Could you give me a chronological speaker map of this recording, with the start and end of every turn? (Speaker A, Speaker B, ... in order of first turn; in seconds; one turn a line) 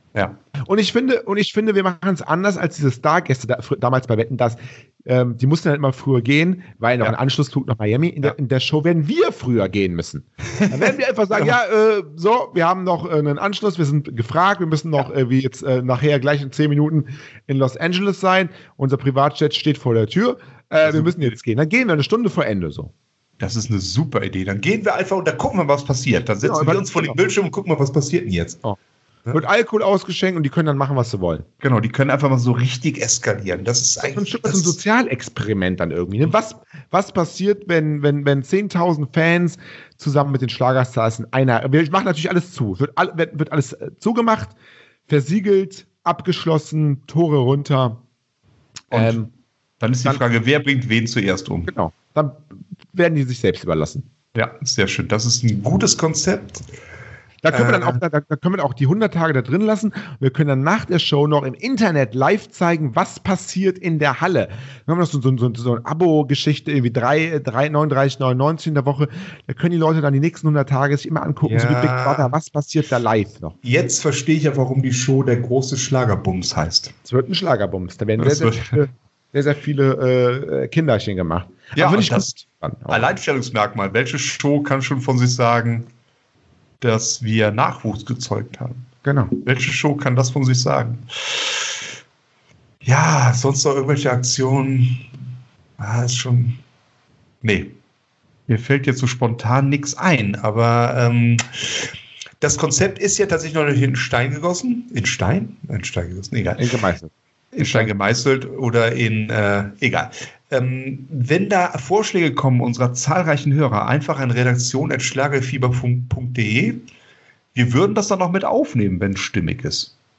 Speaker A: 0.7-22.9
Speaker B: 10.6-11.5
Speaker B: 20.8-21.3
Speaker B: 23.4-28.6
Speaker A: 26.4-27.2
Speaker A: 29.3-31.5
Speaker B: 31.6-34.8
Speaker A: 34.0-44.5
Speaker A: 45.1-48.0
Speaker B: 48.9-49.2
Speaker A: 48.9-49.3
Speaker B: 49.8-51.7
Speaker A: 51.7-54.1
Speaker B: 54.4-56.6
Speaker A: 57.4-73.6
Speaker B: 57.5-58.0
Speaker B: 71.4-72.3
Speaker B: 73.6-77.0
Speaker A: 77.1-83.2
Speaker B: 78.2-78.8
Speaker B: 81.8-85.9
Speaker B: 86.8-91.8
Speaker A: 89.0-89.3
Speaker B: 92.8-95.1
Speaker B: 95.8-96.6
Speaker B: 97.4-97.8
Speaker B: 98.5-106.7
Speaker A: 106.6-107.9
Speaker B: 107.6-116.8
Speaker B: 117.5-119.9